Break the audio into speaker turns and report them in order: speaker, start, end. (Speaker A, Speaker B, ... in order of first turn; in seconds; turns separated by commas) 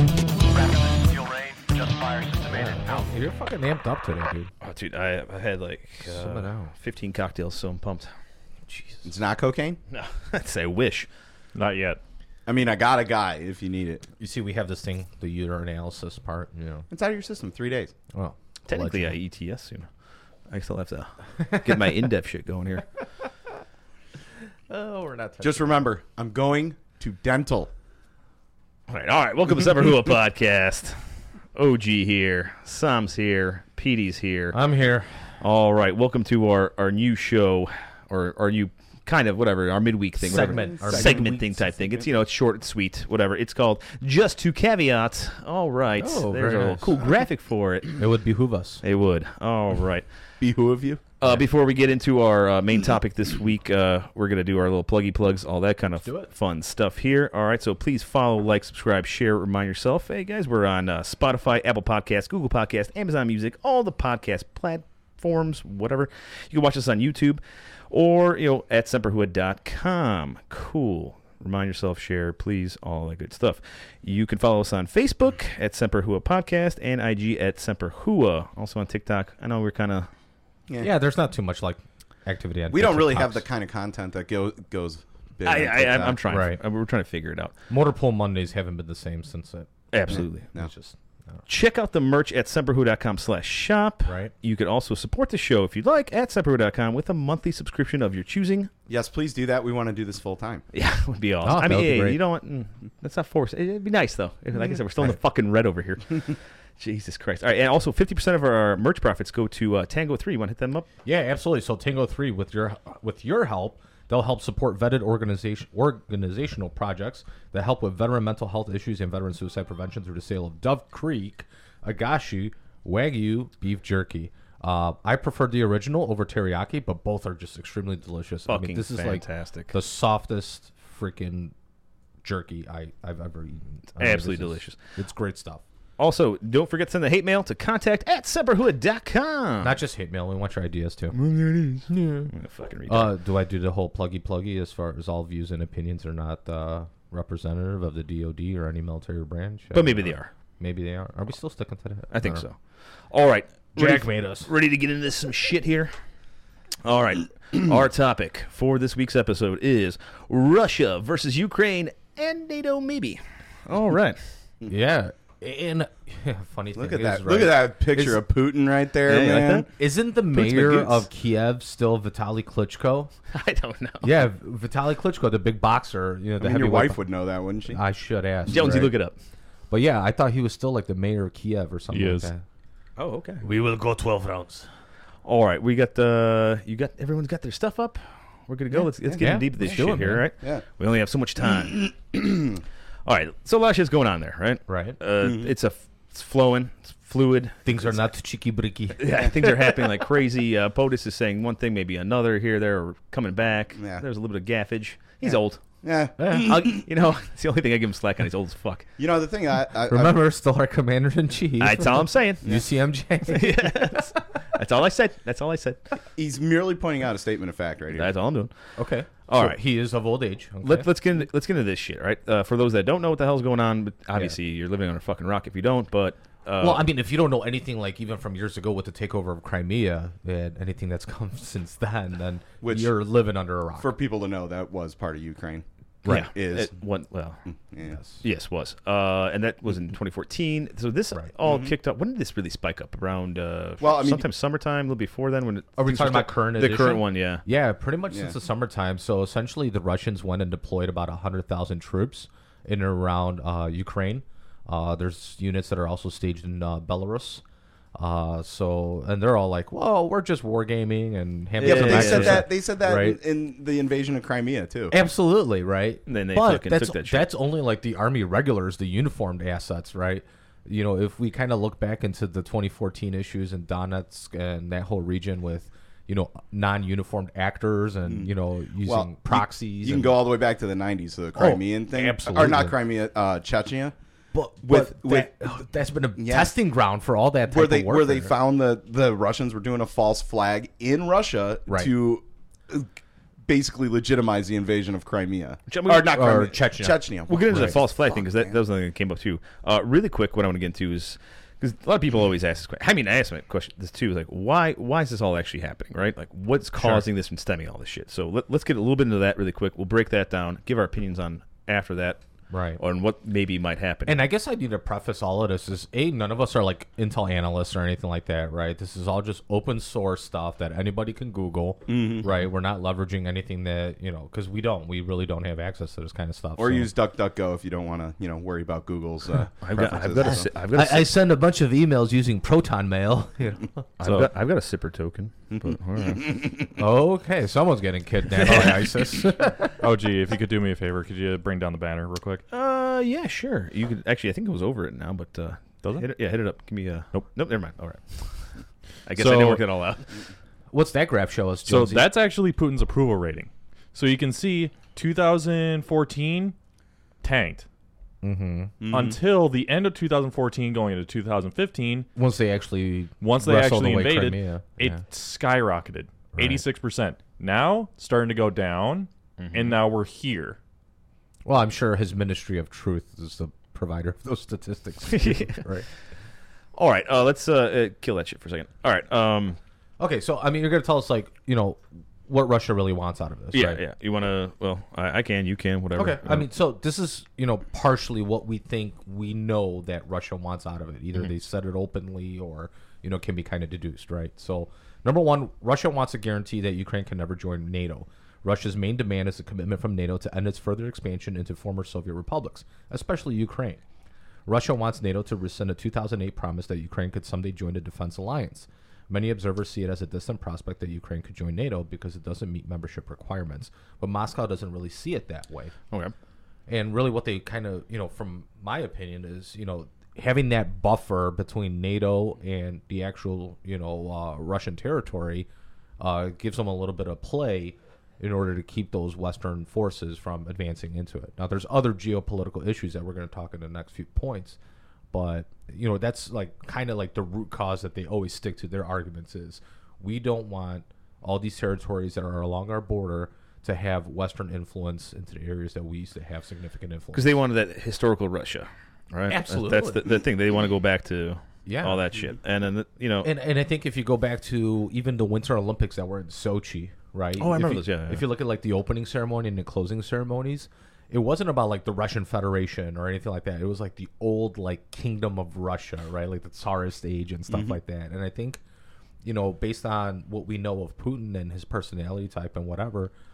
Speaker A: 0.9-2.4, Speaker B: 2.5-4.5, Speaker C: 4.6-8.1, Speaker B: 6.0-6.7, Speaker B: 8.7-9.1, Speaker A: 9.1-9.8, Speaker C: 9.9-11.1, Speaker D: 11.6-12.0, Speaker A: 12.5-14.1, Speaker B: 14.2-16.9, Speaker A: 16.9-17.9, Speaker B: 18.1-19.1, Speaker C: 18.7-19.9, Speaker C: 20.5-22.9, Speaker B: 21.4-21.7, Speaker B: 24.7-25.7, Speaker A: 25.4-27.7, Speaker C: 28.9-31.0, Speaker C: 31.6-34.6, Speaker B: 34.5-35.4, Speaker C: 35.4-48.0, Speaker B: 40.2-41.6, Speaker A: 40.3-42.1, Speaker B: 46.0-47.0, Speaker B: 48.0-48.8, Speaker C: 48.8-50.1, Speaker A: 50.4-51.0, Speaker C: 51.2-80.1, Speaker B: 56.0-56.3, Speaker B: 80.8-83.5, Speaker A: 82.7-86.2, Speaker C: 85.5-87.5, Speaker B: 86.3-86.6, Speaker B: 87.7-91.4, Speaker C: 89.9-90.5, Speaker A: 90.1-90.7, Speaker C: 91.5-98.7, Speaker B: 94.1-94.3, Speaker A: 98.9-100.6, Speaker C: 100.7-110.9, Speaker B: 101.4-102.2, Speaker B: 111.0-131.5, Speaker C: 128.5-129.7, Speaker B: 132.2-135.6, Speaker C: 134.0-134.8, Speaker C: 136.0-139.8, Speaker B: 139.6-141.2, Speaker C: 141.1-143.1, Speaker B: 142.9-152.4, Speaker C: 149.7-150.3, Speaker C: 152.1-155.9, Speaker B: 153.8-154.5, Speaker C: 156.8-164.2, Speaker B: 164.7-168.2, Speaker A: 166.8-169.7, Speaker C: 169.1-169.7, Speaker B: 169.8-173.1, Speaker C: 170.3-171.1, Speaker C: 173.3-174.1, Speaker B: 174.0-177.0, Speaker A: 176.4-177.8, Speaker B: 177.7-178.9, Speaker C: 178.5-179.2, Speaker B: 179.7-182.4, Speaker D: 181.9-182.3, Speaker C: 183.0-183.4, Speaker B: 183.4-184.7, Speaker C: 185.2-192.5, Speaker A: 189.1-189.8, Speaker B: 189.2-190.2, Speaker C: 193.1-198.0, Speaker B: 194.7-195.0, Speaker A: 195.2-195.5, Speaker B: 197.7-199.2, Speaker C: 199.0-205.6, Speaker A: 203.8-204.0, Speaker A: 205.2-206.8, Speaker B: 206.2-206.7, Speaker C: 206.3-208.9, Speaker A: 209.0-210.2, Speaker B: 209.9-214.2, Speaker C: 211.6-212.5, Speaker C: 213.3-215.9, Speaker A: 216.2-218.1, Speaker C: 217.9-218.5, Speaker B: 218.8-220.9, Speaker C: 219.3-219.6, Speaker C: 220.6-226.8, Speaker B: 226.6-233.9, Speaker A: 232.6-233.0, Speaker A: 233.8-236.7, Speaker B: 236.0-236.3, Speaker C: 236.1-237.4, Speaker A: 237.5-238.0, Speaker B: 237.9-238.2, Speaker C: 238.2-247.4, Speaker A: 241.4-241.7, Speaker A: 243.8-244.3, Speaker B: 245.8-257.4, Speaker B: 258.0-263.2, Speaker C: 261.6-262.5, Speaker A: 261.6-264.9, Speaker B: 264.9-280.2, Speaker C: 266.1-267.2, Speaker A: 278.8-283.9, Speaker B: 281.4-282.7, Speaker B: 284.3-288.3, Speaker A: 284.6-285.3, Speaker A: 286.2-286.5, Speaker A: 287.5-292.9, Speaker A: 293.5-298.5, Speaker C: 295.7-296.1, Speaker B: 295.9-297.8, Speaker C: 297.3-312.2, Speaker B: 306.8-307.1, Speaker B: 312.5-312.8, Speaker C: 312.8-314.2, Speaker B: 314.1-326.9, Speaker A: 321.9-322.3, Speaker A: 326.6-330.5, Speaker C: 329.6-331.1, Speaker B: 330.2-334.2, Speaker C: 334.0-336.4, Speaker D: 334.0-334.3, Speaker A: 335.7-336.5, Speaker B: 336.8-339.7, Speaker C: 338.4-338.8, Speaker D: 339.8-342.4, Speaker C: 342.5-350.2, Speaker D: 349.1-349.6, Speaker B: 350.7-352.1, Speaker D: 351.6-356.6, Speaker D: 357.2-357.6, Speaker B: 358.2-358.7, Speaker A: 358.8-359.2, Speaker D: 358.9-362.1, Speaker B: 362.2-365.0, Speaker D: 363.2-370.6, Speaker B: 366.3-366.6, Speaker C: 369.4-369.8, Speaker B: 371.5-375.9, Speaker C: 375.1-375.6, Speaker C: 376.7-379.6, Speaker B: 380.0-383.8, Speaker C: 383.5-386.5, Speaker B: 386.0-403.8, Speaker B: 404.5-415.7, Speaker B: 416.7-425.5, Speaker B: 426.0-434.6, Speaker B: 435.1-447.3, Speaker C: 447.1-453.3, Speaker B: 449.3-450.1, Speaker B: 451.7-452.1, Speaker B: 453.2-468.6, Speaker C: 457.4-458.2, Speaker A: 467.5-467.8, Speaker B: 469.2-473.1